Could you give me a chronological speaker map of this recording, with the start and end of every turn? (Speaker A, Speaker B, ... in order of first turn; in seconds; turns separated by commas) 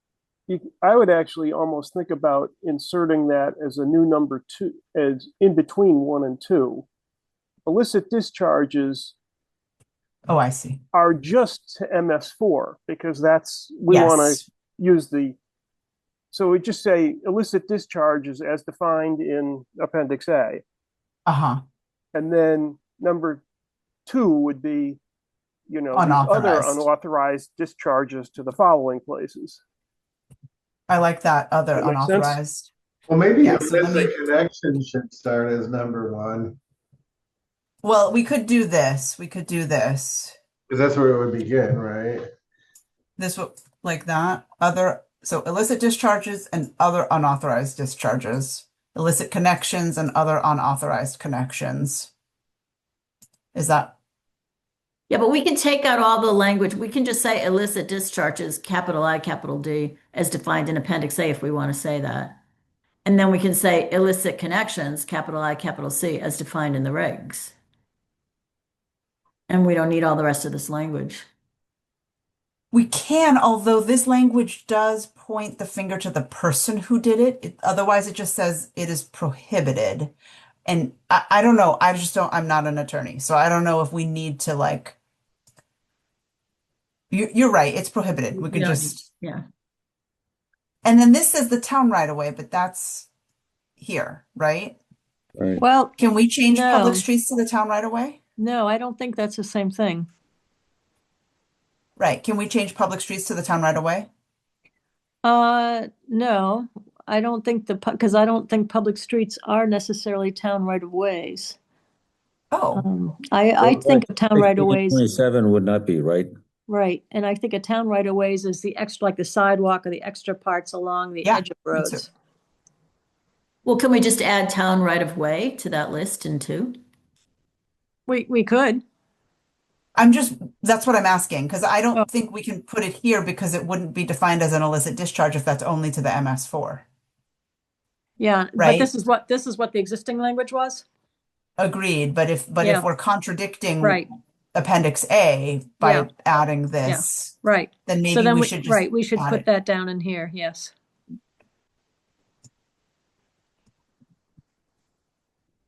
Speaker A: 0.5-6.9, Speaker A: 7.7-9.2, Speaker B: 10.3-10.8, Speaker A: 10.9-15.4, Speaker B: 13.9-14.5, Speaker A: 16.3-20.6, Speaker B: 21.3-21.6, Speaker A: 22.1-23.4, Speaker A: 24.1-25.0, Speaker A: 25.7-29.6, Speaker B: 25.9-26.9, Speaker B: 30.9-32.7, Speaker A: 31.8-32.4, Speaker C: 33.1-36.6, Speaker B: 33.4-34.1, Speaker B: 37.8-40.4, Speaker C: 40.7-42.3, Speaker B: 43.2-52.1, Speaker B: 53.5-54.0, Speaker D: 55.1-62.4, Speaker D: 63.1-67.5, Speaker D: 69.5-71.3, Speaker B: 72.7-80.1, Speaker B: 80.7-85.0, Speaker B: 87.1-89.0, Speaker E: 88.5-88.9, Speaker D: 88.7-89.4, Speaker B: 90.8-93.1, Speaker B: 93.8-94.8, Speaker F: 95.4-95.6, Speaker E: 95.6-96.0, Speaker B: 96.0-98.2, Speaker E: 96.5-97.1, Speaker E: 98.4-100.1, Speaker B: 102.0-104.1, Speaker E: 105.2-111.6, Speaker B: 112.5-112.8, Speaker E: 112.8-115.1, Speaker F: 113.6-116.3, Speaker E: 116.7-122.1, Speaker B: 121.2-122.0, Speaker D: 123.7-126.8, Speaker E: 128.1-128.8, Speaker B: 130.0-136.8, Speaker E: 138.2-140.8, Speaker B: 138.6-138.9, Speaker B: 141.6-144.0, Speaker E: 142.6-142.9, Speaker E: 143.8-144.1, Speaker B: 144.5-149.4, Speaker E: 145.8-146.1, Speaker E: 146.8-150.7